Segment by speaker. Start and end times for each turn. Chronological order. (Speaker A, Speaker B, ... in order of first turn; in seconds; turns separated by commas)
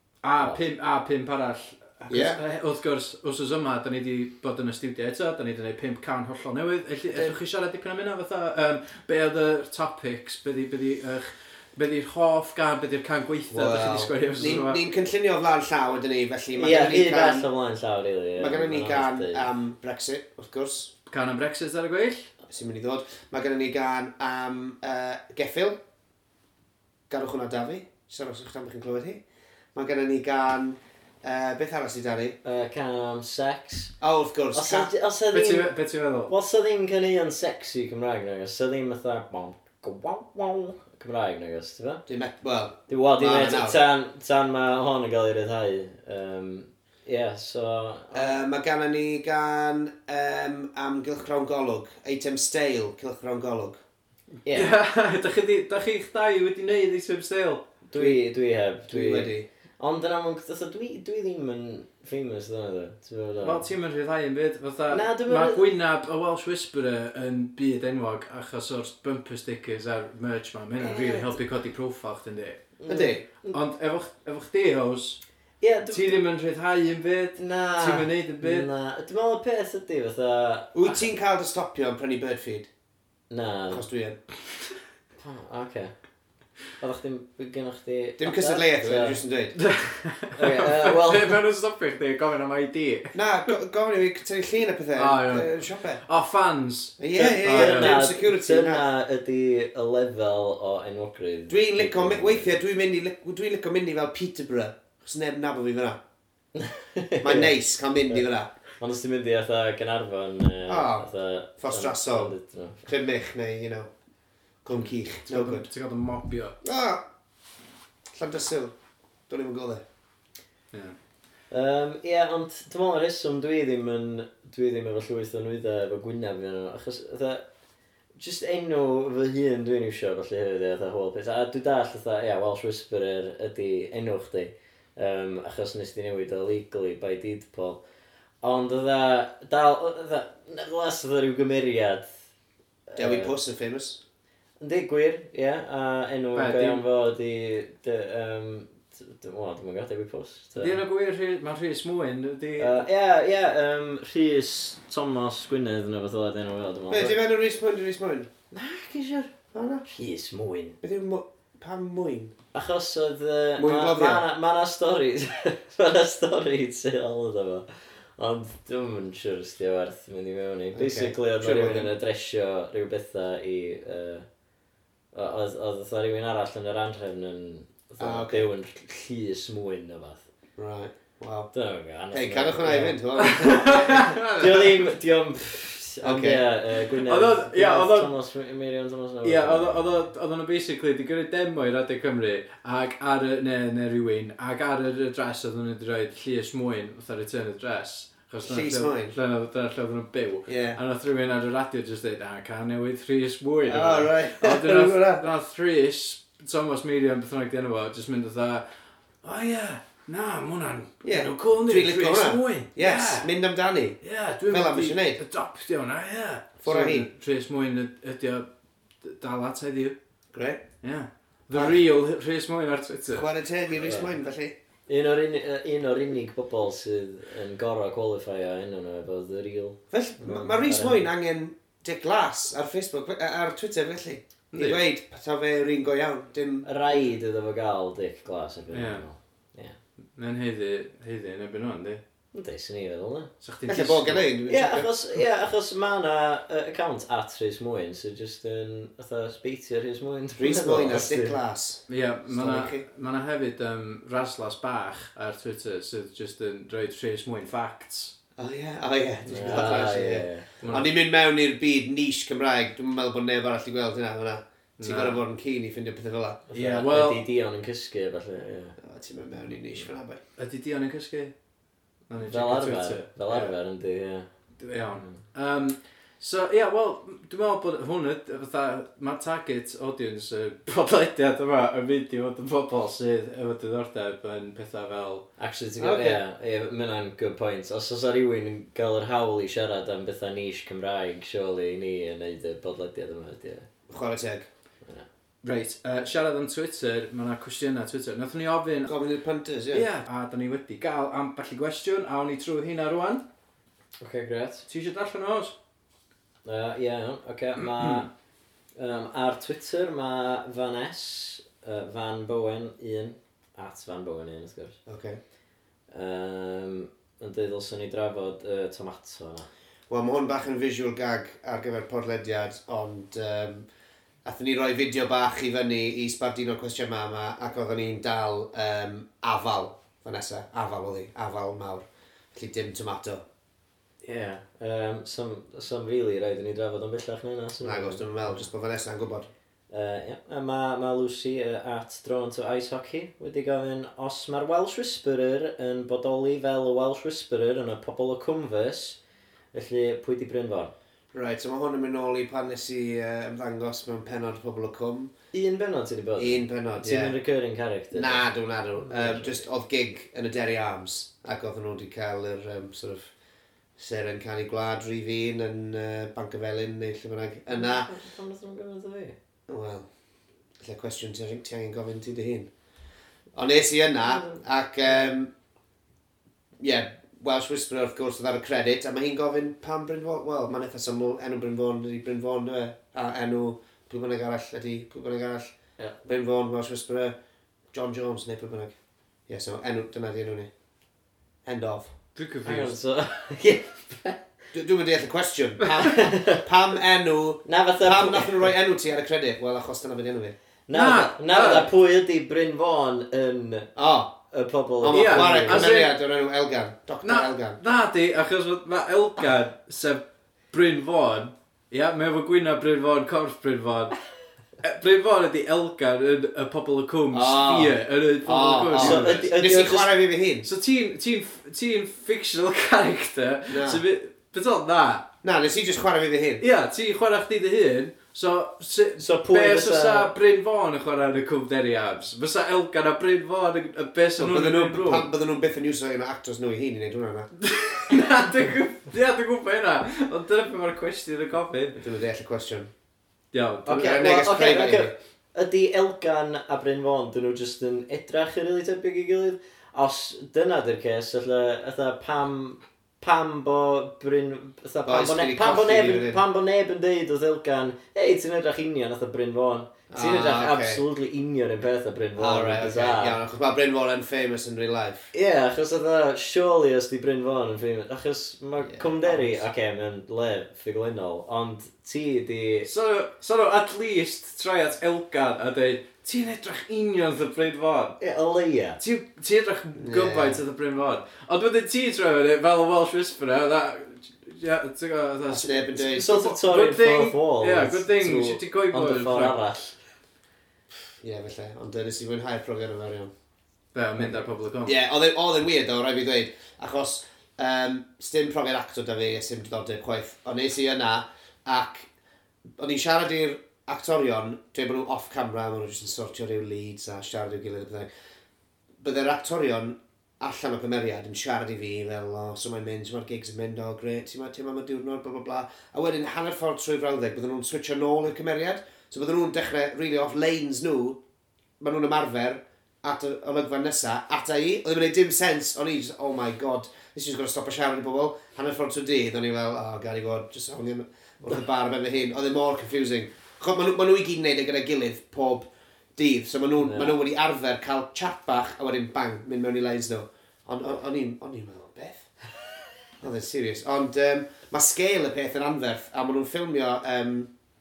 Speaker A: 0.2-14.8, Speaker B: 0.3-0.6, Speaker C: 2.1-2.4, Speaker C: 13.5-17.5, Speaker B: 16.6-19.5, Speaker C: 18.4-20.9, Speaker A: 21.1-22.3, Speaker C: 22.5-25.8, Speaker C: 27.1-29.2, Speaker C: 29.8-32.4, Speaker B: 32.4-33.9, Speaker C: 34.0-34.9, Speaker B: 34.5-35.7, Speaker A: 35.3-36.3, Speaker B: 36.3-42.0, Speaker C: 42.1-43.8, Speaker B: 42.9-48.4, Speaker C: 48.1-53.8, Speaker B: 54.4-54.7, Speaker A: 54.5-57.7, Speaker B: 57.9-63.6, Speaker C: 57.9-58.2, Speaker C: 58.9-59.5, Speaker A: 63.4-72.7, Speaker B: 64.9-65.7, Speaker B: 70.8-71.4, Speaker B: 72.8-73.6, Speaker C: 72.9-73.2, Speaker A: 73.4-75.2, Speaker B: 75.6-76.2, Speaker A: 75.9-78.7, Speaker B: 77.4-81.0, Speaker C: 80.7-82.7, Speaker B: 83.3-83.8, Speaker C: 83.7-84.2, Speaker B: 85.2-85.9, Speaker B: 86.8-89.2, Speaker C: 88.2-89.6, Speaker A: 89.6-93.5, Speaker B: 90.3-91.4, Speaker C: 93.1-96.0, Speaker A: 95.0-98.0, Speaker C: 97.0-98.8, Speaker B: 97.4-102.5, Speaker C: 101.5-106.0, Speaker B: 106.5-112.9, Speaker C: 107.2-108.5, Speaker C: 110.7-111.1, Speaker C: 111.6-112.3, Speaker C: 112.8-113.9, Speaker C: 114.7-115.7, Speaker A: 114.8-116.6, Speaker C: 116.6-117.0, Speaker C: 118.2-118.7, Speaker C: 119.3-119.8, Speaker B: 121.5-127.5, Speaker B: 128.2-137.8, Speaker B: 138.4-142.1, Speaker B: 142.9-143.3, Speaker C: 143.0-144.0, Speaker B: 144.6-150.8, Speaker A: 146.3-146.8, Speaker A: 150.6-152.9, Speaker B: 152.6-157.2, Speaker C: 156.9-158.3, Speaker B: 158.5-159.3, Speaker C: 159.5-159.9, Speaker B: 159.8-160.8, Speaker C: 160.8-162.3, Speaker B: 162.5-174.3, Speaker C: 163.6-164.2, Speaker C: 170.7-171.9, Speaker B: 175.1-180.2, Speaker C: 178.0-178.5, Speaker C: 180.6-181.5, Speaker B: 181.5-189.9, Speaker C: 182.1-184.1, Speaker A: 183.2-184.9, Speaker C: 186.0-186.4, Speaker A: 186.8-188.1, Speaker A: 189.2-208.7, Speaker C: 198.4-199.2, Speaker C: 200.5-200.8, Speaker C: 203.7-205.2, Speaker A: 209.2-213.3, Speaker C: 211.0-214.0, Speaker A: 214.0-218.5, Speaker C: 214.5-215.2, Speaker C: 216.6-217.1, Speaker A: 219.0-219.9, Speaker C: 220.3-220.6, Speaker A: 220.8-223.3, Speaker C: 221.5-221.8, Speaker C: 223.1-224.6, Speaker B: 223.8-224.1, Speaker B: 224.9-231.1, Speaker C: 229.9-237.0, Speaker A: 234.5-234.8, Speaker B: 236.6-239.8, Speaker A: 238.7-239.1, Speaker A: 240.2-242.0, Speaker B: 242.3-243.3, Speaker A: 243.4-244.3, Speaker C: 243.7-244.9, Speaker B: 244.5-251.4, Speaker C: 250.4-252.8, Speaker A: 251.9-258.1, Speaker C: 258.4-266.4, Speaker B: 259.3-260.6, Speaker A: 260.6-260.9, Speaker A: 264.8-265.2, Speaker B: 266.5-268.8, Speaker A: 266.5-267.2, Speaker C: 268.8-270.2, Speaker A: 270.4-271.3, Speaker A: 272.1-273.5, Speaker B: 272.2-274.3, Speaker A: 274.6-285.3, Speaker B: 285.4-293.7, Speaker C: 285.8-286.2, Speaker C: 293.9-294.5, Speaker A: 295.4-299.0, Speaker C: 298.9-299.9, Speaker A: 299.7-303.2, Speaker B: 304.0-304.7, Speaker A: 304.7-305.5, Speaker B: 306.4-308.1, Speaker B: 308.8-314.8, Speaker C: 314.9-315.2, Speaker B: 315.9-319.5, Speaker C: 319.9-323.7, Speaker C: 324.2-333.2, Speaker B: 334.0-338.5, Speaker C: 337.6-339.3, Speaker B: 339.7-349.0, Speaker B: 349.5-350.7, Speaker C: 351.1-355.1, Speaker B: 355.3-358.3, Speaker C: 356.2-357.2, Speaker C: 357.9-363.1, Speaker B: 358.8-359.4, Speaker C: 363.8-367.9, Speaker B: 367.5-369.2, Speaker C: 369.5-369.9, Speaker C: 370.6-372.5, Speaker C: 373.3-375.3, Speaker B: 374.1-374.4, Speaker C: 376.6-385.5, Speaker C: 386.0-387.1, Speaker C: 387.7-388.7, Speaker C: 389.3-390.5, Speaker C: 391.4-391.9, Speaker A: 392.1-392.8, Speaker B: 392.4-394.2, Speaker C: 394.5-400.4, Speaker B: 395.8-396.4, Speaker B: 397.4-398.5, Speaker B: 400.7-403.7, Speaker A: 400.7-401.7, Speaker C: 403.8-404.1, Speaker B: 404.3-405.9, Speaker C: 404.8-407.6, Speaker A: 404.9-405.9, Speaker A: 407.0-414.0, Speaker A: 414.6-419.3, Speaker C: 417.1-420.5, Speaker B: 418.7-419.9, Speaker A: 420.4-425.1, Speaker C: 423.5-423.8, Speaker C: 425.2-426.4, Speaker A: 426.4-435.1, Speaker B: 429.0-430.1, Speaker C: 434.2-437.3, Speaker A: 437.4-441.8, Speaker C: 441.8-442.7, Speaker A: 443.3-444.0, Speaker B: 443.7-463.2, Speaker C: 443.8-444.9, Speaker C: 454.9-456.2, Speaker C: 459.9-460.8, Speaker C: 462.2-465.1, Speaker B: 465.1-472.7, Speaker C: 468.6-469.4, Speaker A: 472.6-478.0, Speaker B: 478.0-478.8, Speaker A: 478.8-489.4, Speaker C: 479.8-480.4, Speaker C: 485.3-486.2, Speaker B: 485.9-489.8, Speaker C: 491.0-493.1, Speaker A: 493.7-494.8, Speaker C: 494.0-501.9, Speaker C: 502.6-507.9, Speaker C: 508.8-521.0, Speaker C: 521.6-542.1, Speaker B: 536.6-537.0, Speaker C: 543.0-547.3